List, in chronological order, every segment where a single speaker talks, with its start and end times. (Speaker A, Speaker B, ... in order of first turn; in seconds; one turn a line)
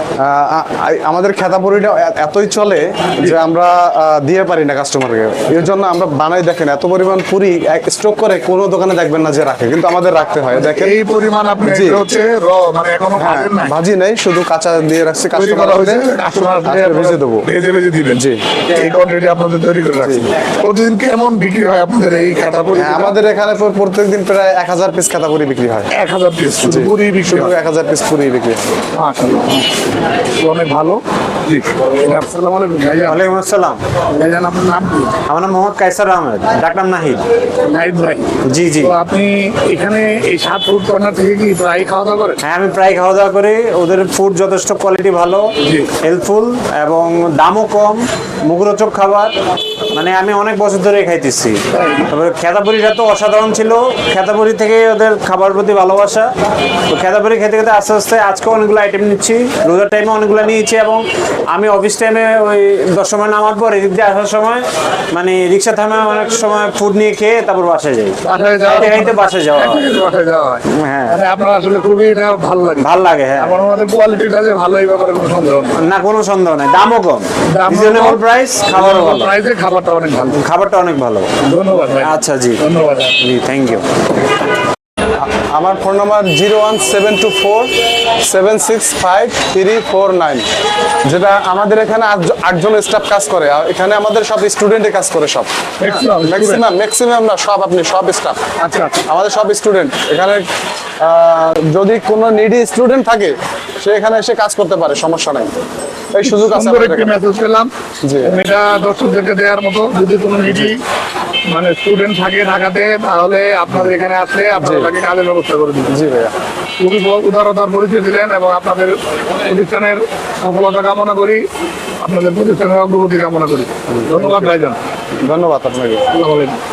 Speaker A: 0.2-10.9
Speaker B: 10.5-13.8
Speaker A: 11.7-12.0
Speaker A: 13.2-16.1
Speaker B: 15.3-23.2
Speaker A: 16.6-17.5
Speaker A: 20.0-20.3
Speaker A: 22.8-25.9
Speaker B: 25.9-27.6
Speaker A: 26.6-28.8
Speaker B: 28.9-29.7
Speaker B: 30.4-33.3
Speaker C: 33.1-33.8
Speaker B: 34.1-35.1
Speaker C: 35.3-37.3
Speaker B: 37.6-38.3
Speaker C: 38.5-39.0
Speaker B: 38.8-42.4
Speaker C: 42.4-45.5
Speaker B: 45.6-45.9
Speaker C: 46.0-49.3
Speaker C: 49.9-51.6
Speaker B: 51.7-52.1
Speaker C: 52.1-56.3
Speaker C: 56.9-69.9
Speaker B: 68.2-75.8
Speaker C: 70.7-71.2
Speaker C: 72.8-73.6
Speaker C: 75.8-79.3
Speaker B: 77.5-80.4
Speaker C: 80.4-81.3
Speaker B: 81.5-83.2
Speaker C: 82.0-82.6
Speaker C: 83.2-83.9
Speaker A: 85.3-87.7
Speaker A: 88.2-90.5
Speaker A: 91.0-98.4
Speaker B: 95.8-96.6
Speaker B: 98.6-99.0
Speaker A: 99.1-100.4
Speaker A: 101.0-105.5
Speaker A: 106.1-107.2
Speaker B: 106.2-107.7
Speaker A: 108.0-108.4
Speaker B: 108.2-110.8
Speaker A: 110.5-110.7
Speaker B: 111.5-116.0
Speaker A: 114.6-114.9
Speaker A: 115.9-116.3
Speaker B: 116.8-121.4
Speaker B: 122.0-124.8
Speaker A: 123.9-124.5
Speaker A: 125.2-126.0
Speaker B: 126.1-126.6